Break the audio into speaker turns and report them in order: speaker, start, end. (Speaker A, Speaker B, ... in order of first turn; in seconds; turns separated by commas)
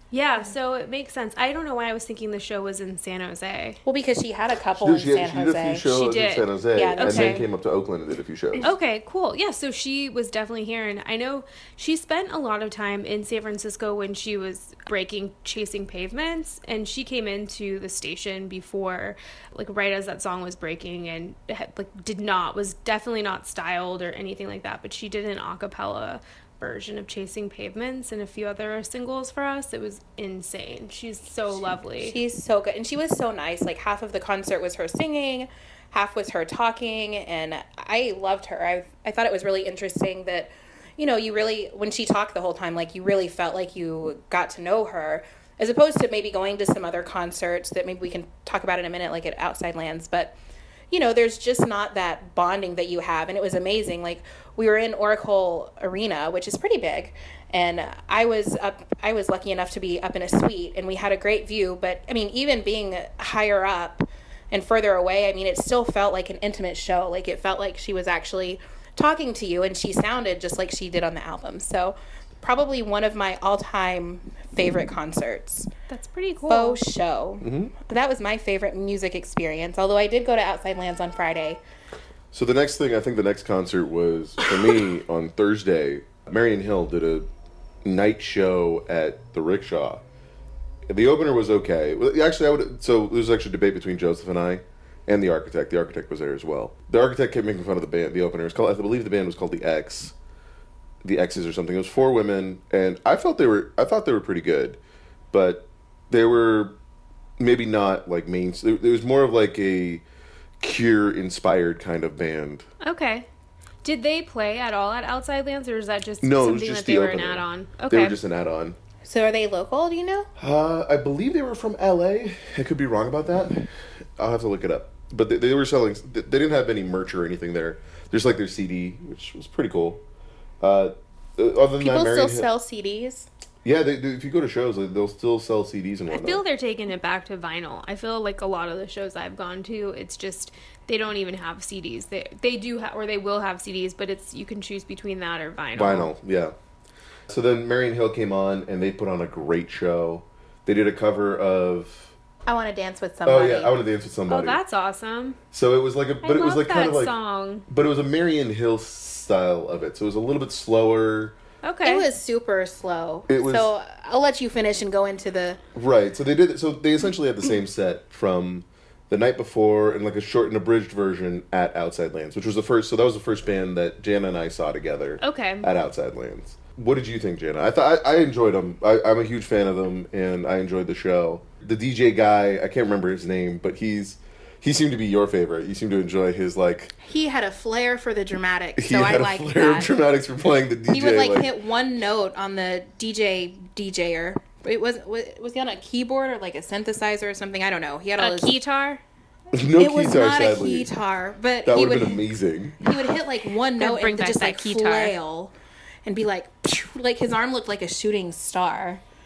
Speaker A: 0.1-3.8, Speaker B: 3.9-5.9, Speaker C: 4.8-8.7, Speaker A: 5.9-7.5, Speaker B: 6.8-7.4, Speaker A: 8.6-32.2, Speaker B: 32.0-50.4, Speaker B: 50.9-75.7, Speaker A: 75.9-76.8, Speaker B: 76.5-81.6, Speaker C: 77.4-77.7, Speaker C: 82.3-87.3, Speaker C: 87.8-90.0, Speaker C: 90.9-100.1, Speaker C: 101.0-104.8, Speaker C: 105.3-106.8, Speaker C: 107.4-110.0, Speaker C: 110.6-112.7, Speaker A: 112.8-113.3, Speaker A: 113.8-118.2, Speaker C: 116.2-118.8, Speaker B: 119.0-120.3, Speaker C: 120.4-130.0, Speaker C: 130.6-132.5, Speaker B: 131.8-133.3, Speaker C: 133.7-136.4, Speaker A: 136.1-146.1, Speaker C: 145.8-146.5, Speaker C: 147.3-152.1, Speaker B: 152.5-153.8, Speaker C: 153.3-154.6, Speaker A: 154.3-155.4, Speaker C: 155.5-157.2, Speaker A: 156.2-157.7, Speaker C: 157.7-161.4, Speaker A: 161.6-162.1, Speaker B: 161.8-165.6, Speaker C: 163.3-163.7, Speaker C: 165.8-186.9, Speaker A: 175.2-175.7, Speaker B: 187.0-189.9, Speaker C: 188.8-191.5, Speaker B: 190.9-198.6, Speaker A: 198.2-199.0, Speaker C: 199.5-200.9, Speaker B: 199.8-205.5, Speaker C: 201.7-202.8, Speaker A: 203.8-205.2, Speaker B: 206.1-209.0